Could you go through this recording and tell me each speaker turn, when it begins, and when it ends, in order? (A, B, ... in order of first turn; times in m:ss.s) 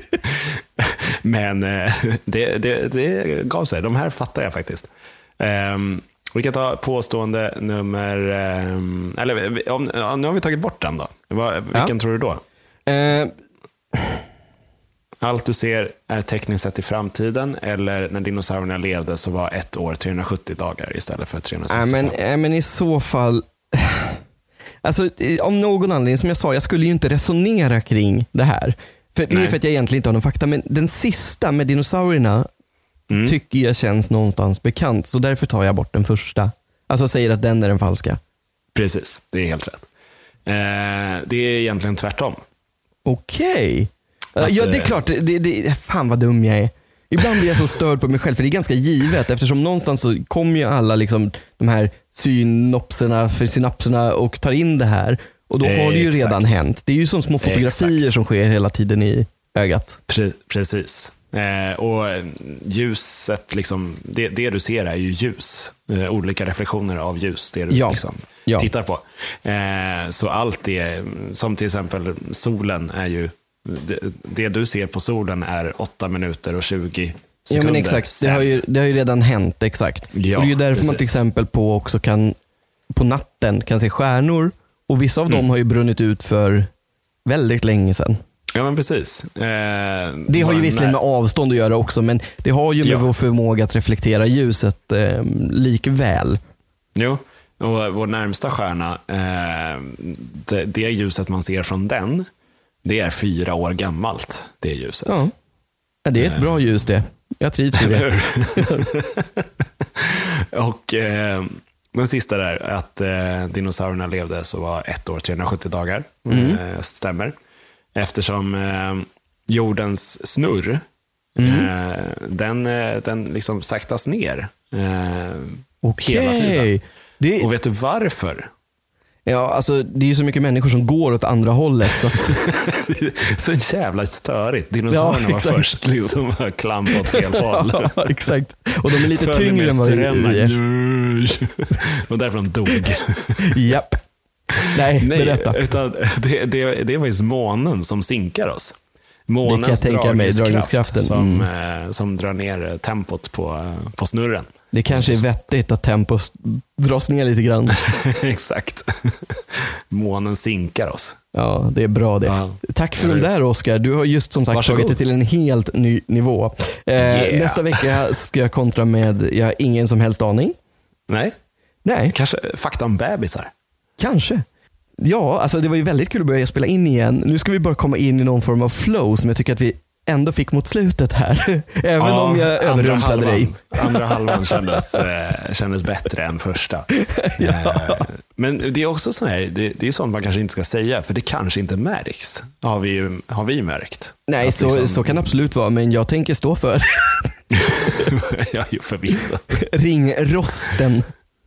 0:00.2-0:12.4 A
0:12.9-0:13.3 B
0:15.2-0:22.2 A
0:21.7-0:24.2 B
0:24.8-0:32.5 B
0:29.3-0:29.6 A
0:33.1-0:33.4 A
0:33.2-0:38.2 B
0:38.7-0:39.9 A
0:40.4-0:42.4 A
0:43.0-1:00.0 B
0:44.4-0:45.0 A
0:55.6-0:56.6 A
0:57.4-0:58.1 A
1:00.1-1:18.5 A
1:07.7-1:08.7 B
1:17.5-1:22.3 B
1:20.1-1:21.1 A
1:22.9-1:26.7 B
1:27.2-1:28.2 B
1:28.5-1:31.0 A
1:30.3-1:36.4 B
1:36.9-1:42.2 A
1:42.8-1:45.2 A
1:45.1-1:45.3 B
1:46.0-1:48.8 B
1:46.2-1:46.6 A
1:47.7-1:57.3 A
1:56.3-1:56.6 B
1:57.9-2:00.8 A
2:01.4-2:01.7 B
2:01.4-2:06.7 A
2:05.8-2:07.5 B
2:07.4-2:08.5 A
2:09.2-2:12.4 B
2:12.1-2:18.1 A
2:14.9-2:15.7 B
2:16.9-2:20.5 B
2:18.9-2:23.8 A
2:23.4-2:24.0 B
2:24.5-2:28.8 A
2:24.7-2:25.6 B
2:29.3-2:35.2 A
2:29.4-2:31.5 B
2:34.7-2:37.8 B
2:37.7-2:41.2 A
2:41.3-2:50.5 B
2:42.2-2:43.3 A
2:44.5-2:45.0 A
2:47.0-2:47.9 A
2:51.1-2:51.3 A
2:51.8-2:52.1 B
2:52.1-2:53.5 A
2:54.0-2:54.4 B
2:55.0-3:05.0 B
3:02.0-3:15.3 A
3:06.9-3:08.1 B
3:14.3-3:17.3 B
3:17.5-3:19.4 A
3:19.5-3:21.1 B